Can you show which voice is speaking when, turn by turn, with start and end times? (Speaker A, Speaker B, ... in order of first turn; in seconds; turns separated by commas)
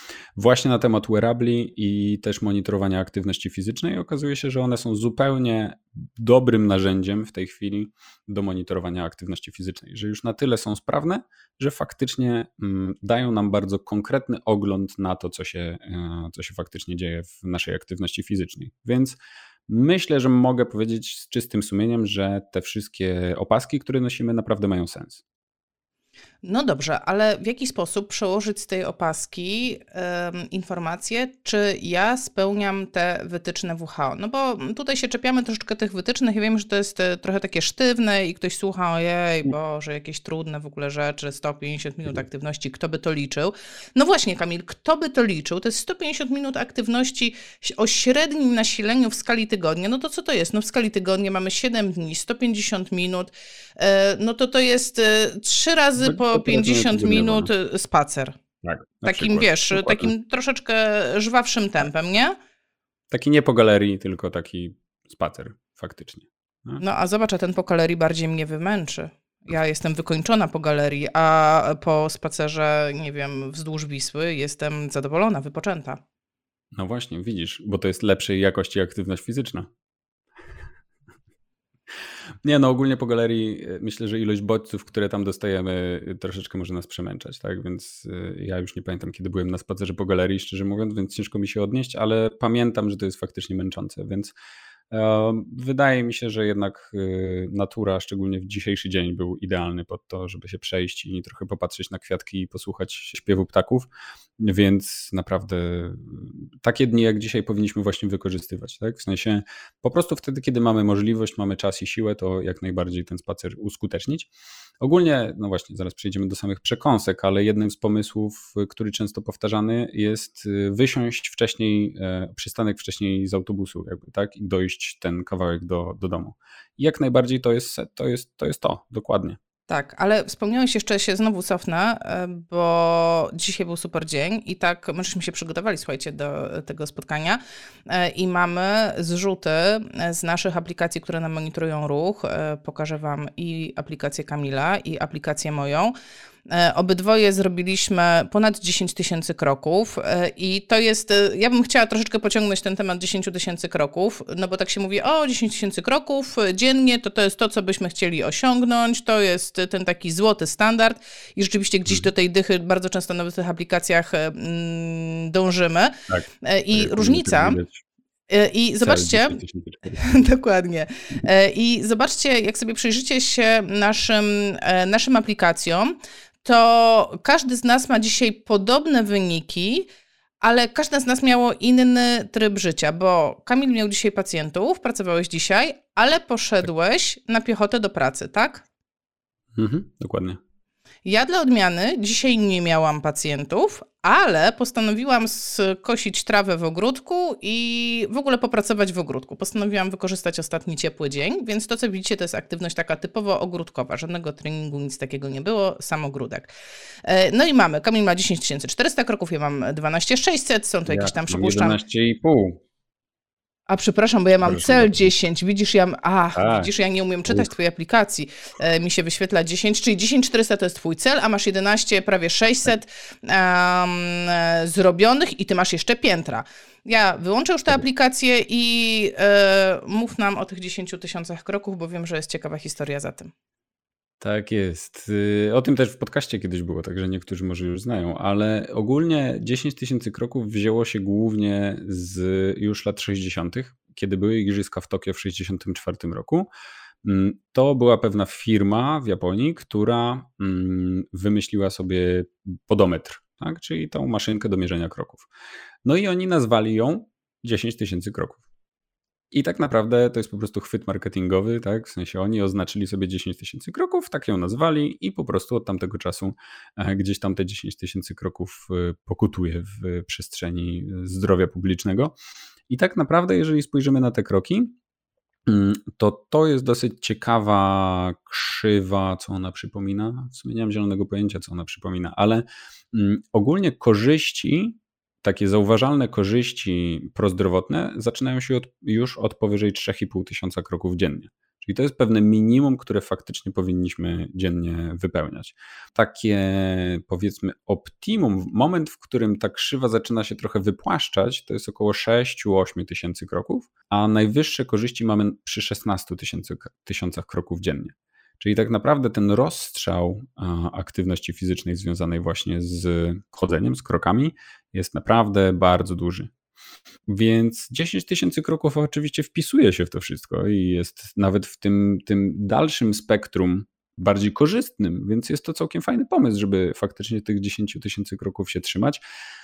Speaker A: 0.4-25.2, Speaker B: 26.4-58.4, Speaker A: 56.0-57.5, Speaker A: 58.6-60.1, Speaker B: 59.0-62.4, Speaker A: 63.1-66.8, Speaker B: 66.8-76.0, Speaker A: 76.7-79.7, Speaker A: 82.4-94.3, Speaker A: 94.9-114.3, Speaker A: 114.8-129.4, Speaker B: 129.7-145.9, Speaker B: 146.5-167.6, Speaker A: 166.1-167.8, Speaker B: 168.3-169.4, Speaker A: 168.8-170.1, Speaker B: 170.0-179.9, Speaker B: 180.4-188.7, Speaker A: 189.6-190.4, Speaker B: 191.1-206.5, Speaker B: 207.1-211.8, Speaker A: 210.9-212.6, Speaker B: 213.7-233.3, Speaker A: 214.4-215.1, Speaker A: 216.3-216.7, Speaker A: 234.2-246.5, Speaker A: 247.0-255.3, Speaker A: 255.8-258.4, Speaker A: 259.3-272.1, Speaker A: 272.7-274.8, Speaker A: 275.4-316.3, Speaker A: 317.1-329.0